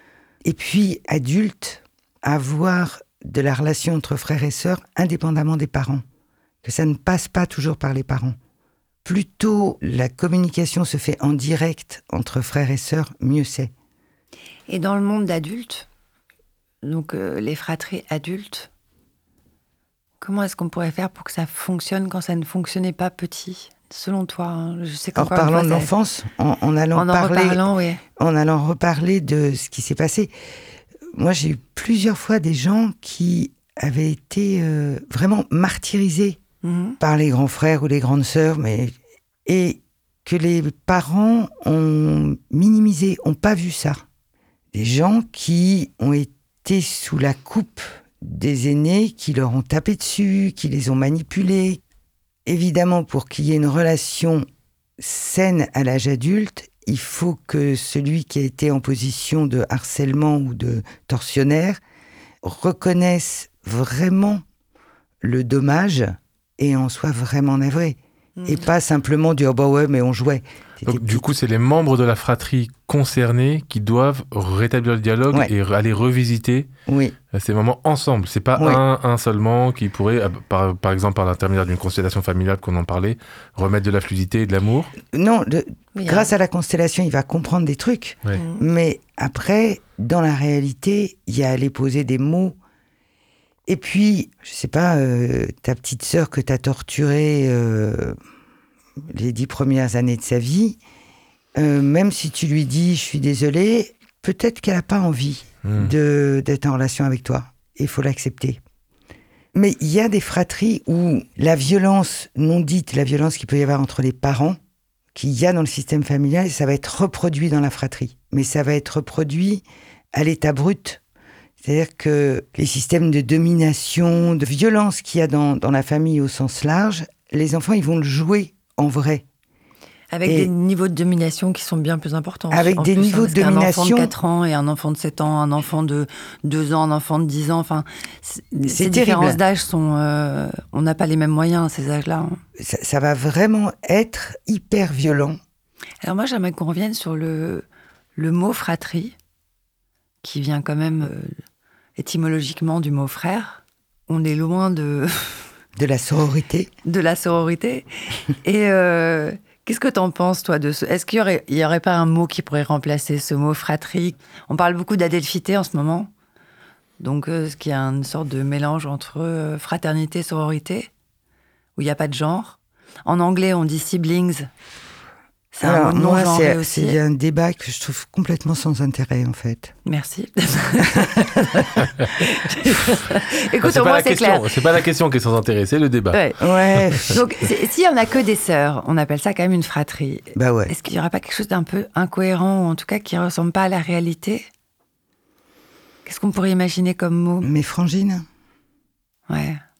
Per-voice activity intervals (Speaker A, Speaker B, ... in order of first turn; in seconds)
Speaker A: 0.5-6.0, 6.6-8.4, 9.1-13.7, 25.1-27.6, 28.2-30.3, 31.1-36.4, 37.0-38.9, 39.5-44.0, 44.7-51.8, 52.5-54.5, 55.0-61.8, 62.4-64.4, 65.2-71.3, 76.9-77.2, 78.6-78.8, 85.1-92.6, 93.7-98.2, 99.0-100.8, 101.6-108.6, 109.5-114.6, 115.2-121.0, 121.6-129.2, 130.2-130.5, 132.5-134.1, 138.6-139.4, 142.6-145.4, 155.8-156.7, 175.6-179.7, 186.4-187.2, 190.3-190.7, 197.4-198.3
Speaker B: 14.7-15.9, 16.8-18.7, 20.2-25.9, 26.9-28.0, 36.6-37.0, 68.4-68.7, 86.0-86.3, 88.4-88.6, 130.1-142.4, 146.0-147.7, 148.2-149.2, 150.2-151.4, 152.0-155.5, 156.8-166.1, 167.0-170.9, 171.8-174.5, 175.5-177.0, 179.9-184.6, 186.1-186.4, 186.9-194.5, 196.1-197.5, 199.3-199.6
Speaker C: 70.9-76.7, 77.3-84.9, 105.6-105.9, 183.6-186.2, 186.8-187.2